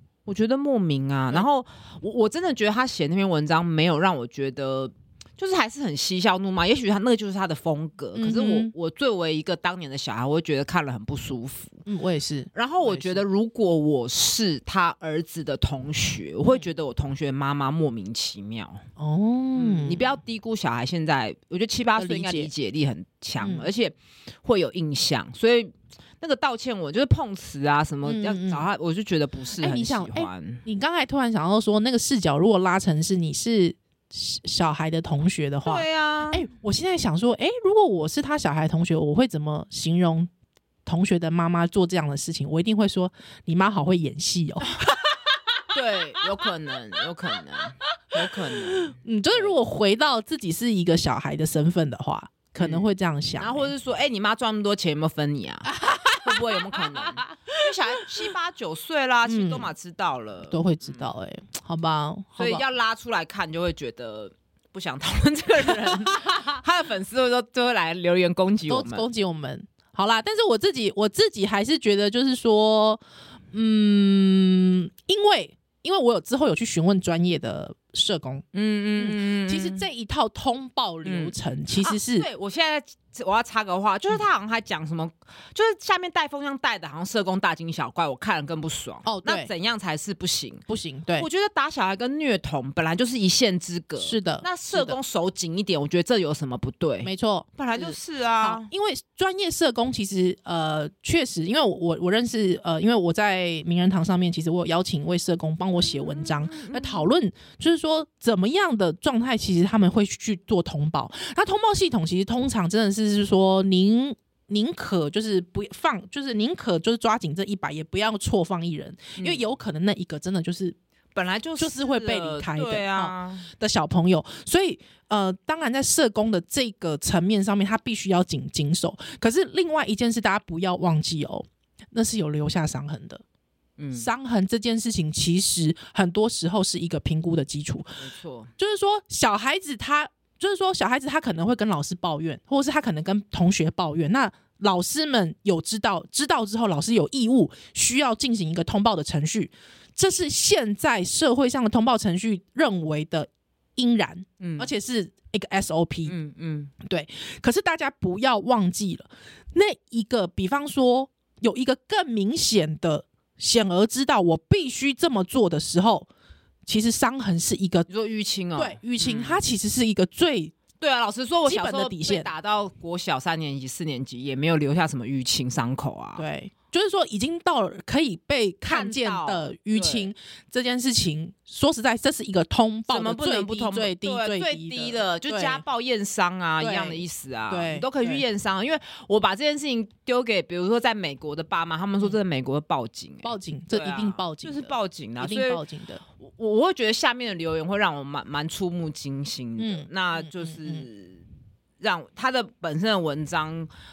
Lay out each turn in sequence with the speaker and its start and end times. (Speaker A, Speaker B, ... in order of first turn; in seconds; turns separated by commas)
Speaker A: 0.3-11.8, Speaker B: 8.2-8.7, Speaker B: 11.9-13.2, Speaker A: 12.5-18.8, Speaker B: 19.0-20.2, Speaker A: 19.6-30.6, Speaker B: 22.0-22.5, Speaker B: 23.4-23.7, Speaker B: 28.1-28.7, Speaker B: 29.6-40.3, Speaker A: 35.6-36.5, Speaker B: 40.9-45.1, Speaker A: 45.7-49.6, Speaker B: 48.7-53.7, Speaker A: 52.6-52.9, Speaker A: 53.4-55.7, Speaker B: 55.7-58.0, Speaker A: 56.2-61.1, Speaker B: 59.3-59.7, Speaker B: 60.5-62.6, Speaker A: 62.4-69.1, Speaker B: 68.7-73.0, Speaker B: 73.5-78.5, Speaker A: 78.5-79.9, Speaker B: 79.0-82.3, Speaker A: 81.0-90.6, Speaker B: 89.0-89.5, Speaker B: 90.7-91.3, Speaker A: 91.2-98.7, Speaker B: 94.0-95.0, Speaker B: 97.0-120.8, Speaker A: 105.8-107.0, Speaker A: 119.2-119.5, Speaker A: 121.2-123.5, Speaker B: 121.6-133.2, Speaker A: 133.8-134.1, Speaker B: 133.9-156.1, Speaker A: 138.0-138.5, Speaker A: 154.4-154.7, Speaker A: 156.1-156.7, Speaker B: 156.8-166.1, Speaker B: 166.7-167.9, Speaker A: 167.9-169.5, Speaker B: 168.6-170.5, Speaker A: 170.8-176.2, Speaker B: 171.5-172.3, Speaker B: 176.2-185.6, Speaker A: 178.7-180.1, Speaker A: 182.9-195.6, Speaker B: 186.6-188.2, Speaker B: 193.2-196.0, Speaker A: 196.2-201.2, Speaker B: 199.6-200.9, Speaker A: 201.8-203.7